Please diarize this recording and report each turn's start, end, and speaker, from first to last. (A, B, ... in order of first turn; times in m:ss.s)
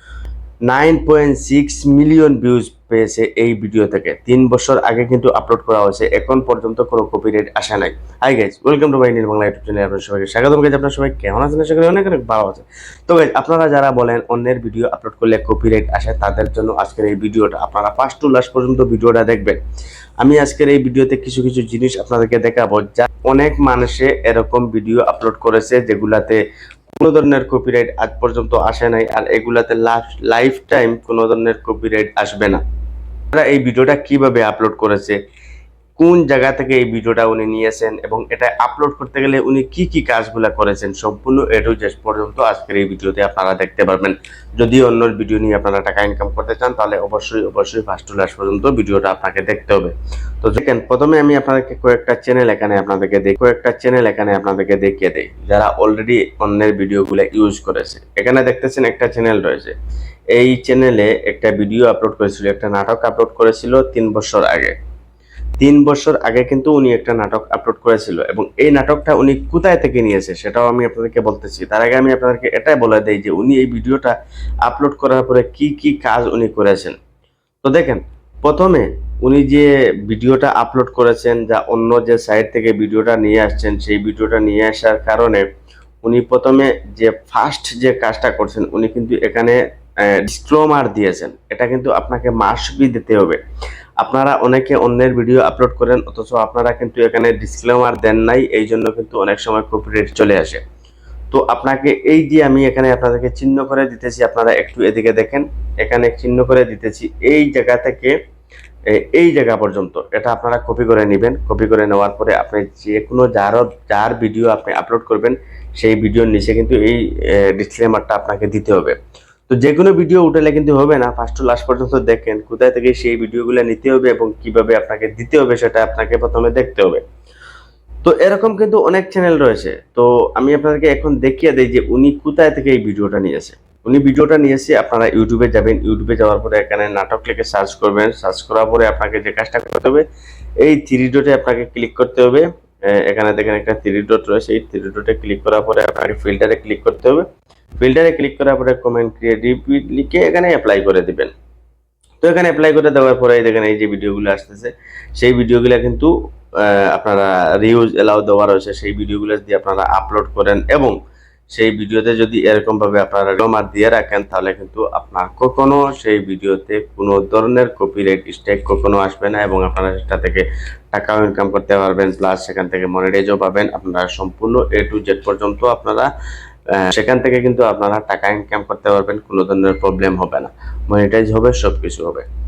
0:00.7-0:19.6 A
0:20.2-0:26.4 A
0:26.9-0:32.6 A
0:33.3-0:35.2 A
0:36.0-0:59.7 A
1:00.3-1:04.7 A
1:05.6-1:14.1 A
1:14.6-1:17.0 A
1:17.6-1:25.4 A
1:26.0-1:33.4 A
1:34.0-1:40.6 A
1:41.3-1:48.1 A
1:48.9-1:59.0 A
1:59.5-2:07.0 A
2:08.0-2:20.0 A
2:20.6-2:27.2 A
2:27.8-2:31.3 A
2:32.2-2:40.9 A
2:41.5-2:56.1 A
2:56.7-3:02.2 A